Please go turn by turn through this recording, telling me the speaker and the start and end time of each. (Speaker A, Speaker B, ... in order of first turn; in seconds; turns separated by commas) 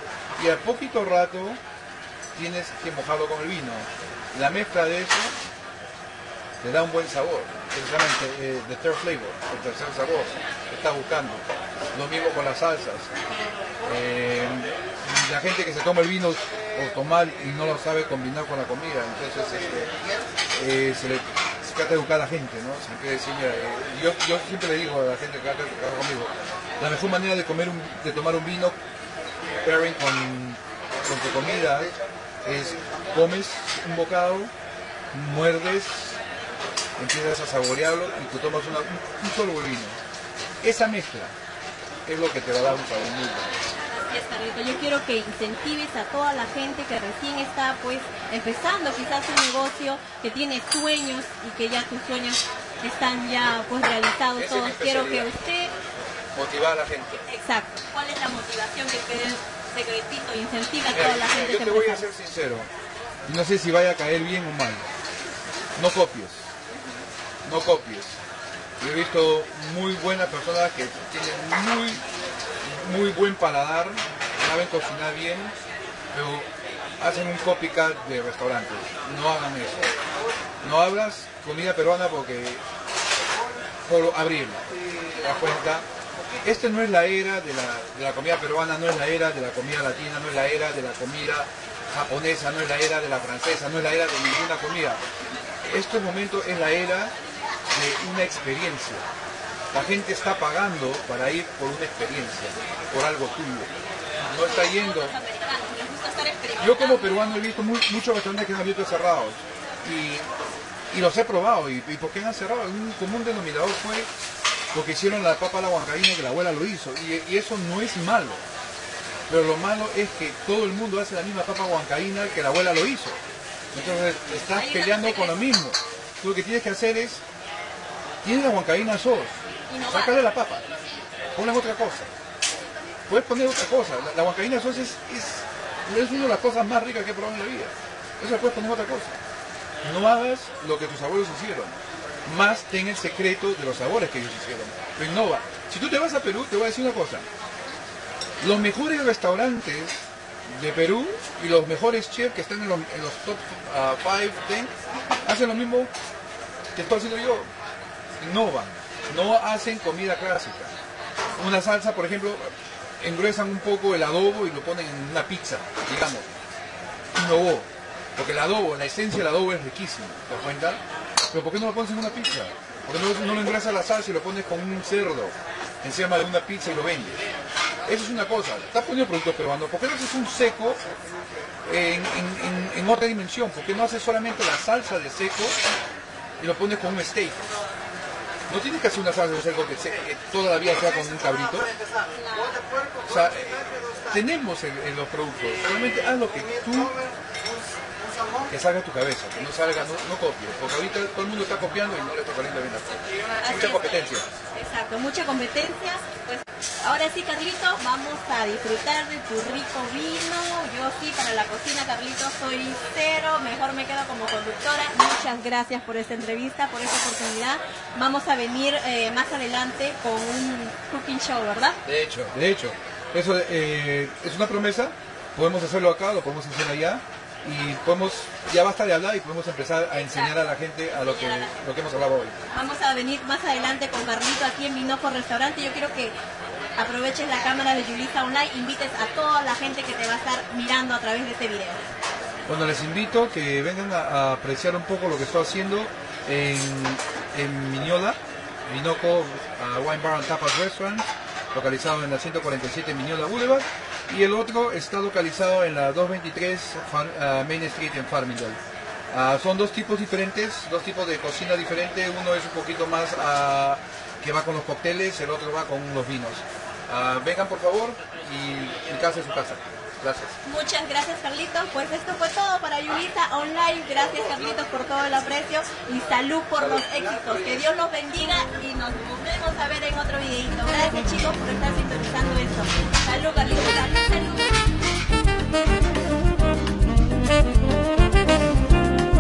Speaker A: 0.4-1.6, Speaker A: 2.3-5.3, Speaker A: 6.6-13.1, Speaker A: 13.8-19.9, Speaker A: 20.5-28.8, Speaker A: 29.6-31.9, Speaker A: 32.5-34.5, Speaker A: 35.1-36.2, Speaker A: 37.0-40.0, Speaker A: 40.6-41.4, Speaker A: 42.1-43.5, Speaker B: 43.9-55.7, Speaker A: 54.4-55.3, Speaker A: 56.3-57.2, Speaker B: 57.3-62.1, Speaker A: 60.9-62.7, Speaker A: 63.3-64.9, Speaker A: 65.8-66.5, Speaker A: 67.4-68.2, Speaker A: 68.8-72.0, Speaker A: 72.6-75.5, Speaker A: 76.1-80.0, Speaker A: 80.6-82.6, Speaker A: 83.8-85.9, Speaker A: 86.4-95.0, Speaker A: 95.7-97.2, Speaker A: 97.7-99.1, Speaker A: 99.7-103.7, Speaker A: 104.2-105.2, Speaker B: 104.4-107.2, Speaker A: 106.6-110.3, Speaker A: 110.9-114.1, Speaker A: 114.7-118.4, Speaker A: 119.3-123.2, Speaker A: 123.7-127.2, Speaker B: 124.5-125.5, Speaker A: 128.2-130.6, Speaker B: 129.7-130.2, Speaker A: 131.3-132.1, Speaker A: 133.1-139.2, Speaker A: 139.8-147.3, Speaker A: 148.4-154.7, Speaker A: 155.2-155.9, Speaker A: 156.7-157.5, Speaker A: 158.2-160.7, Speaker A: 161.4-166.3, Speaker A: 167.1-170.8, Speaker A: 171.3-177.2, Speaker A: 177.8-180.8, Speaker A: 181.7-185.6, Speaker A: 186.4-187.5, Speaker A: 188.5-191.7, Speaker B: 192.1-192.6, Speaker A: 193.1-197.0, Speaker A: 198.5-204.3, Speaker B: 203.4-204.0, Speaker B: 204.5-221.8, Speaker A: 221.8-232.4, Speaker B: 229.9-230.4, Speaker B: 230.9-231.6, Speaker B: 232.5-236.2, Speaker B: 236.8-241.9, Speaker A: 242.5-258.6, Speaker A: 259.1-270.4, Speaker B: 270.4-284.6, Speaker A: 276.6-277.6